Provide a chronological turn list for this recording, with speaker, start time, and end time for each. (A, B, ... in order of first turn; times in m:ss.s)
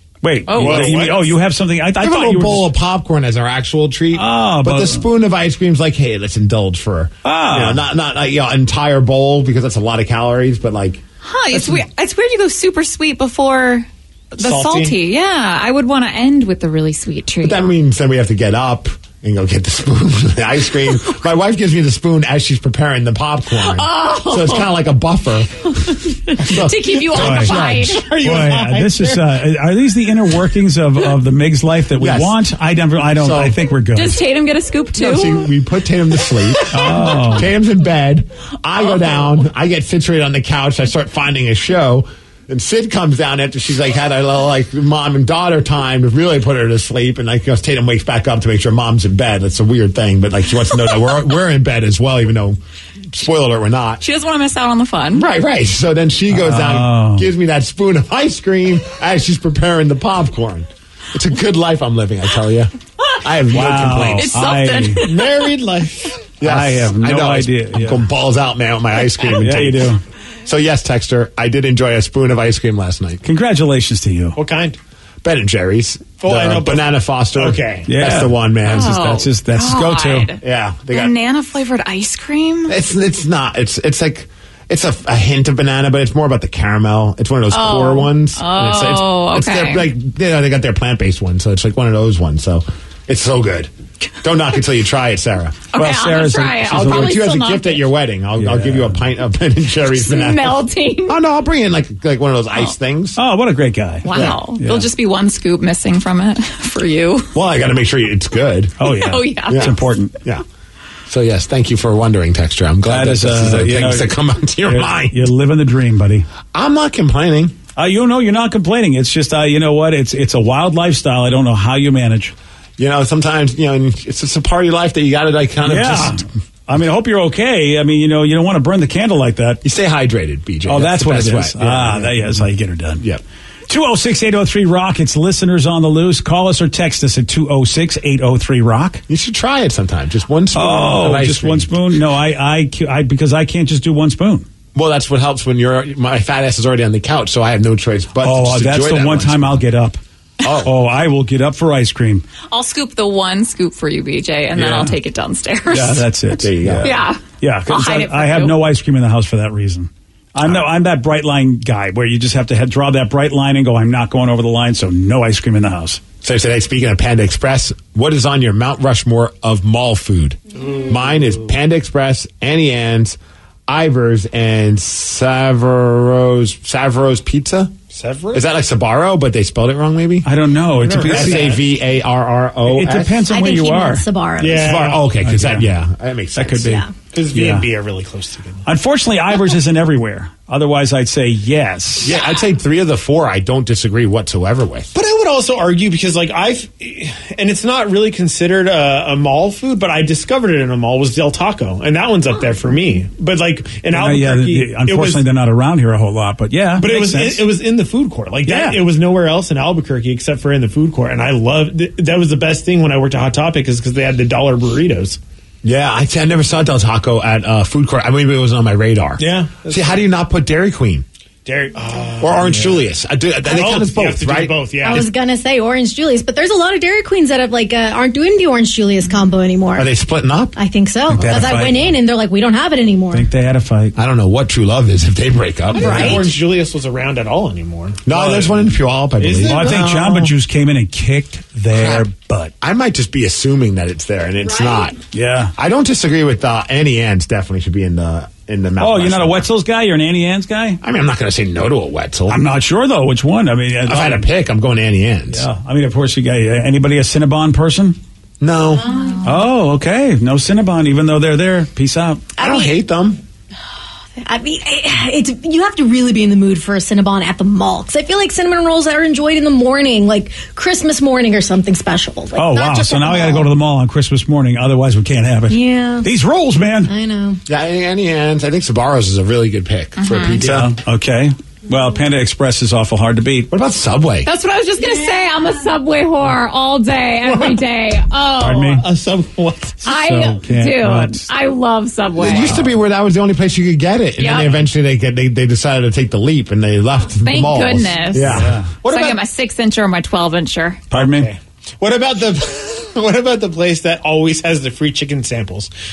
0:00.2-0:02.7 A
0:00.5-0:01.1 B
0:00.5-0:01.3 C
0:02.0-0:11.0 D
0:04.1-0:05.0 A
0:07.2-0:07.8 A
0:11.2-0:17.6 B
0:11.5-0:11.8 D
0:14.4-0:15.0 C
0:17.4-0:28.0 D
0:23.6-0:24.7 B
0:25.8-0:28.1 B
0:27.2-0:27.6 A
0:27.2-0:29.4 C
0:28.2-0:34.2 A
0:32.0-0:32.4 D
0:33.2-0:33.6 D
0:34.0-0:35.5 B
0:35.0-0:52.6 D
0:36.7-0:37.5 A
0:36.8-0:37.2 B
0:53.1-0:54.0 D
0:54.0-0:55.3 B
0:55.2-1:04.4 D
0:56.3-0:57.3 A
1:03.5-1:05.1 A
1:04.2-1:05.5 B
1:05.0-1:06.3 C
1:06.4-1:13.2 D
1:06.4-1:08.0 A
1:09.4-1:10.0 A
1:13.2-1:14.4 A
1:14.4-1:14.8 C
1:15.2-1:19.3 D
1:16.2-1:17.9 C
1:17.9-1:20.3 A
1:18.7-1:22.8 B
1:20.4-1:21.2 D
1:22.7-1:33.7 D
1:27.5-1:29.9 B
1:34.2-1:35.7 D
1:35.7-1:37.9 B
1:35.8-1:37.2 A
1:36.6-1:43.2 D
1:38.4-1:39.0 A
1:39.9-1:41.2 B
1:43.2-1:44.9 A
1:44.0-1:47.3 B
1:47.3-1:48.8 D
1:48.8-1:50.1 A
1:48.8-1:49.8 B
1:49.5-1:50.4 D
1:51.1-1:55.3 D
1:52.9-1:54.1 A
1:54.6-1:56.3 A
1:56.5-1:57.6 D
1:57.8-2:02.3 A
2:02.8-2:06.2 D
2:05.6-2:09.6 A
2:09.6-2:12.4 D
2:10.7-2:13.0 A
2:13.7-2:19.0 A
2:19.1-2:21.7 D
2:20.5-2:24.5 A
2:24.7-2:29.6 D
2:28.2-2:30.0 A
2:30.4-2:30.7 D
2:30.6-2:32.2 A
2:32.5-2:36.0 B
2:34.6-2:35.0 A
2:35.7-2:46.0 A
2:36.3-2:37.0 D
2:36.8-2:38.6 B
2:46.2-2:53.2 D
2:50.6-2:51.5 C
2:53.7-2:57.8 D
2:57.9-2:58.5 C
2:58.3-3:00.3 D
3:00.2-3:01.6 A
3:00.8-3:01.6 C
3:01.0-3:03.2 D
3:02.7-3:04.0 A
3:03.3-3:04.9 E
3:04.4-3:05.2 C
3:04.6-3:06.8 D
3:05.2-3:05.7 A
3:06.4-3:07.7 A
3:07.1-3:08.6 C
3:08.6-3:12.2 A
3:12.0-3:14.9 D
3:14.9-3:25.2 C
3:23.9-3:27.5 A
3:26.8-3:35.2 C
3:28.4-3:28.8 A
3:35.6-3:41.1 D
3:39.2-3:40.0 C
3:41.4-3:42.9 C
3:42.2-3:45.0 D
3:43.4-3:45.1 C
3:44.8-3:49.9 E
3:49.8-3:50.6 D
3:50.6-3:53.3 E
3:51.1-3:51.9 A
3:53.1-3:54.0 A
3:54.0-3:56.3 D
3:55.8-4:00.2 C
3:55.8-3:56.2 E
3:58.1-4:00.3 D
3:59.4-4:02.5 A
4:01.7-4:02.1 D
4:02.6-4:05.0 D
4:05.1-4:05.5 A
4:05.6-4:09.5 D
4:08.8-4:10.8 A
4:10.8-4:12.4 D
4:12.3-4:14.3 A
4:13.9-4:15.5 D
4:15.3-4:18.0 A
4:18.4-4:18.9 D
4:19.2-4:22.3 A
4:22.4-4:23.2 D
4:24.2-4:33.5 E
4:32.4-4:36.9 A
4:35.5-4:36.1 E
4:36.9-4:37.4 E
4:37.5-4:40.7 D
4:40.0-4:40.4 B
4:40.4-4:43.5 A
4:43.5-4:44.3 D
4:44.2-4:48.8 B
4:47.3-4:47.6 C
4:48.4-4:48.8 A
4:48.8-4:49.8 C
4:49.8-4:51.3 A
4:49.8-4:52.6 B
4:52.2-4:58.6 D
4:52.3-4:52.6 A
4:54.2-4:54.6 B
4:57.2-4:58.3 B
4:58.2-4:58.7 A
4:58.3-4:59.2 C
4:58.8-5:00.8 B
5:00.9-5:01.3 A
5:00.9-5:05.7 C